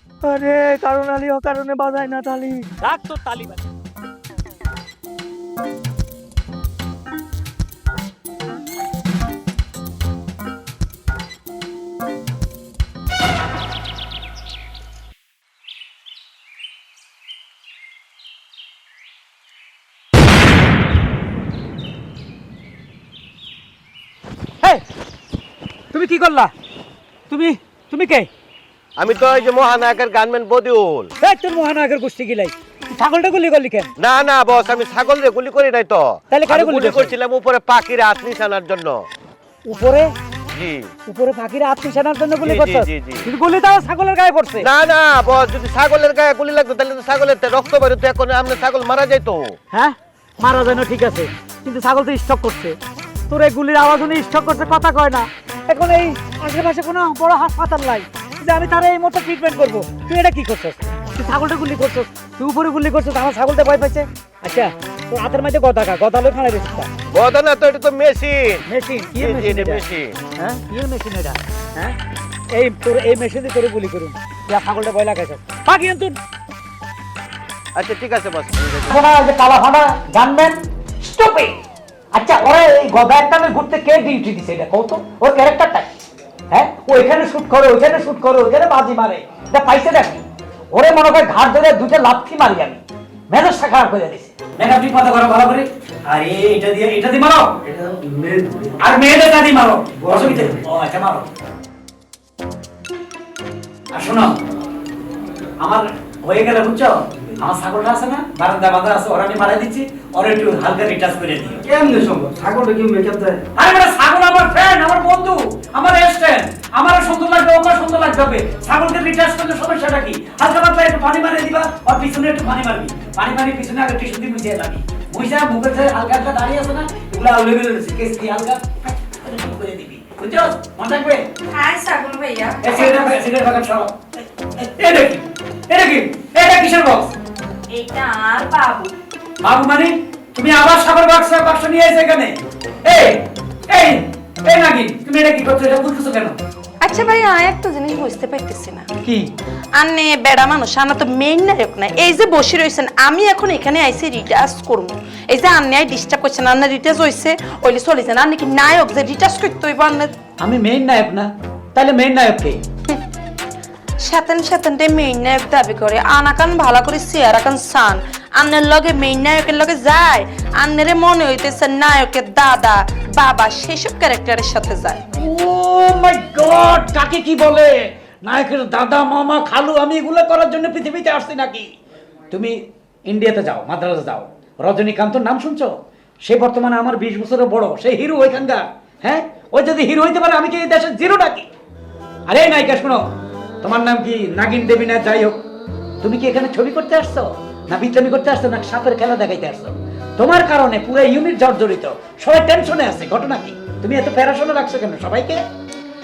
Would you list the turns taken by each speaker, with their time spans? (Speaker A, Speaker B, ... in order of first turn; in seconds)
Speaker A: 0.2-2.7
Speaker B: 2.8-3.6, 25.9-26.5, 27.3-28.3, 31.2-33.9, 36.3-37.1, 39.7-40.1, 41.1-44.7, 49.7-52.8, 53.3-66.9, 68.7-72.0, 72.5-76.2, 78.9-81.6, 82.1-85.9, 86.5-97.5, 98.8-101.3, 103.9-104.3, 105.6-111.6, 113.6-131.3, 132.6-137.2, 139.4-146.4, 149.0-149.3, 160.4-162.6, 175.2-181.7, 182.3-191.5, 192.3-195.4, 196.0-205.4
Speaker C: 29.0-31.1, 34.0-39.1, 40.5-40.9, 42.4-43.3, 44.6-49.6, 67.1-68.6, 69.2-70.2, 77.8-78.9
Speaker D: 97.7-98.8, 100.0-100.5, 111.6-113.4
Speaker E: 131.5-133.1, 137.7-138.9, 146.8-148.9, 149.8-160.1, 164.0-175.0